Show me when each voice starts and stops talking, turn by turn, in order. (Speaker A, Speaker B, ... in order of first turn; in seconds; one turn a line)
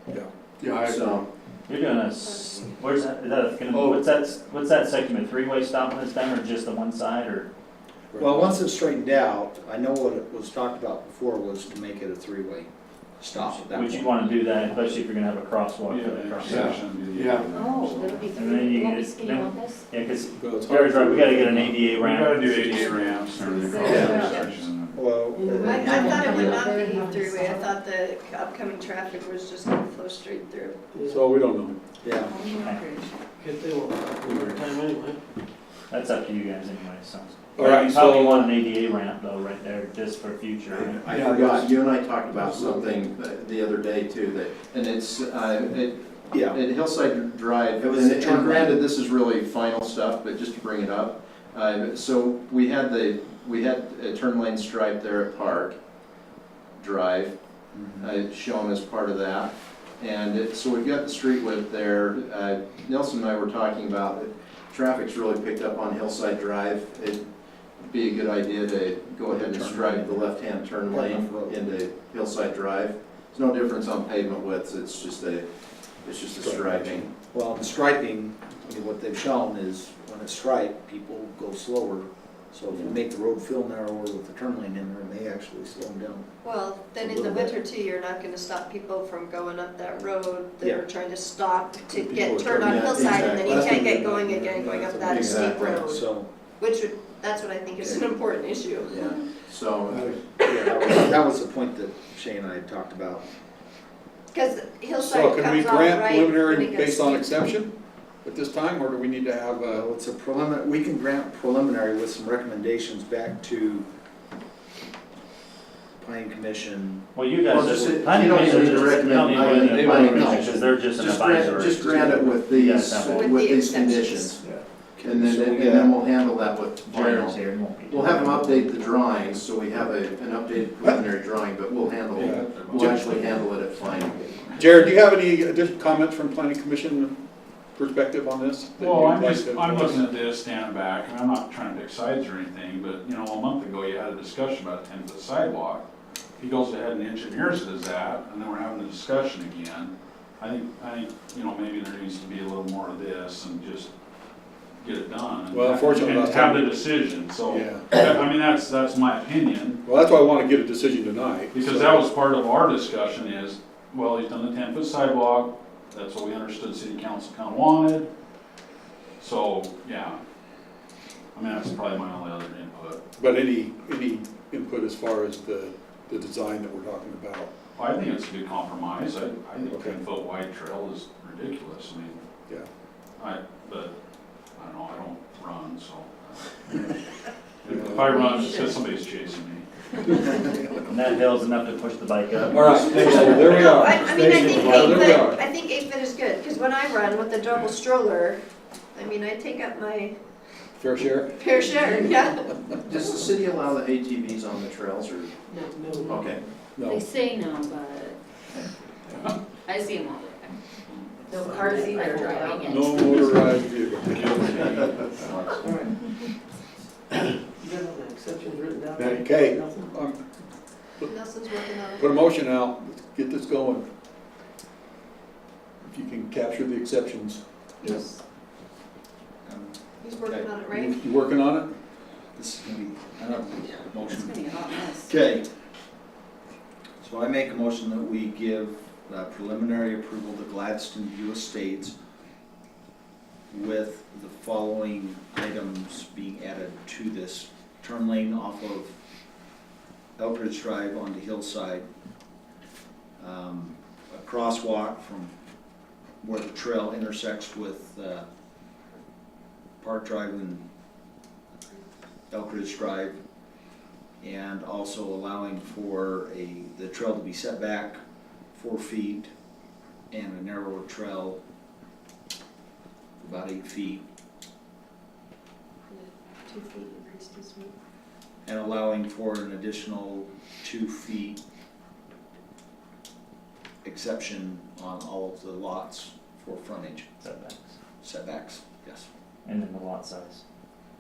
Speaker A: 0.1-1.2
Speaker B: 0.8-1.3
Speaker C: 1.7-7.5
Speaker D: 2.2-2.6
Speaker A: 8.1-8.5
Speaker E: 8.2-12.7
Speaker E: 13.2-14.2
Speaker C: 13.7-16.8
Speaker F: 15.9-18.4
Speaker D: 17.5-19.9
Speaker C: 18.3-23.2
Speaker A: 20.4-21.9
Speaker F: 21.9-25.0
Speaker D: 22.9-24.3
Speaker G: 24.1-24.5
Speaker E: 24.9-26.7
Speaker H: 25.4-25.7
Speaker G: 25.5-30.8
Speaker D: 26.0-27.7
Speaker H: 30.9-31.2
Speaker A: 31.1-31.8
Speaker E: 32.0-32.4
Speaker D: 32.3-33.1
Speaker C: 32.5-33.0
Speaker H: 33.4-35.2
Speaker A: 34.2-34.7
Speaker C: 35.9-41.0
Speaker A: 37.6-38.5
Speaker E: 40.7-41.7
Speaker B: 40.9-55.8
Speaker E: 46.3-46.6
Speaker E: 47.8-48.8
Speaker B: 56.8-57.4
Speaker E: 57.7-58.1
Speaker B: 58.0-67.2
Speaker B: 67.8-75.5
Speaker E: 69.3-70.3
Speaker E: 70.9-71.6
Speaker B: 76.0-77.1
Speaker A: 76.5-77.0
Speaker E: 77.3-86.3
Speaker G: 86.4-96.0
Speaker E: 87.0-87.5
Speaker A: 91.9-95.8
Speaker B: 92.6-93.8
Speaker B: 95.1-95.7
Speaker E: 95.3-96.3
Speaker G: 96.6-99.1
Speaker E: 98.9-99.2
Speaker B: 99.0-100.2
Speaker A: 99.9-100.2
Speaker E: 100.4-103.2
Speaker G: 104.3-107.4
Speaker A: 105.0-109.8
Speaker E: 109.7-113.9
Speaker E: 116.0-117.0
Speaker C: 117.2-123.6
Speaker B: 117.5-124.4
Speaker H: 118.4-118.8
Speaker E: 120.0-120.4
Speaker G: 123.1-124.4
Speaker E: 125.0-126.0
Speaker B: 125.0-134.6
Speaker C: 126.8-128.9
Speaker A: 132.2-133.0
Speaker F: 132.2-133.0
Speaker A: 134.6-137.2
Speaker A: 137.8-140.1
Speaker F: 138.8-145.8
Speaker F: 146.4-153.9
Speaker F: 154.8-159.8
Speaker A: 155.5-156.8
Speaker A: 157.5-157.9
Speaker A: 159.8-162.1
Speaker F: 161.5-168.1
Speaker F: 169.2-170.2
Speaker F: 171.3-173.0
Speaker A: 173.2-177.5
Speaker F: 177.8-182.2
Speaker A: 179.6-180.0
Speaker F: 183.2-183.9
Speaker F: 184.6-186.6
Speaker F: 187.6-190.2
Speaker A: 187.7-188.2
Speaker C: 188.1-188.6
Speaker G: 188.2-188.8
Speaker C: 190.9-195.2
Speaker A: 192.5-195.4
Speaker G: 192.9-198.4
Speaker G: 198.9-200.2
Speaker A: 200.8-201.6
Speaker G: 201.4-202.6
Speaker H: 201.6-201.9
Speaker B: 202.8-205.3
Speaker H: 205.5-206.5
Speaker B: 206.1-206.4
Speaker A: 206.8-207.1
Speaker D: 206.8-208.2
Speaker F: 209.1-209.4
Speaker D: 209.7-210.6
Speaker D: 211.3-213.5
Speaker H: 211.3-212.7
Speaker A: 212.6-214.9
Speaker F: 214.0-215.7
Speaker H: 215.6-216.0
Speaker H: 217.6-219.9
Speaker A: 219.0-220.2
Speaker G: 221.1-222.3
Speaker A: 222.0-223.9
Speaker A: 225.8-228.1
Speaker G: 227.8-228.2
Speaker E: 229.4-230.5
Speaker G: 230.0-231.0
Speaker A: 230.7-231.7
Speaker E: 232.3-235.5
Speaker D: 234.0-235.1
Speaker E: 237.0-241.9
Speaker E: 243.5-248.9
Speaker E: 250.2-251.9
Speaker E: 253.2-255.3
Speaker E: 256.2-258.3
Speaker E: 259.8-260.6
Speaker E: 262.3-263.2
Speaker E: 264.2-268.0
Speaker E: 268.5-269.3
Speaker E: 270.1-271.4
Speaker E: 273.2-274.0
Speaker G: 275.9-277.7
Speaker E: 278.5-281.4
Speaker E: 283.8-287.1
Speaker C: 287.2-287.8
Speaker E: 288.0-289.1
Speaker C: 289.4-290.4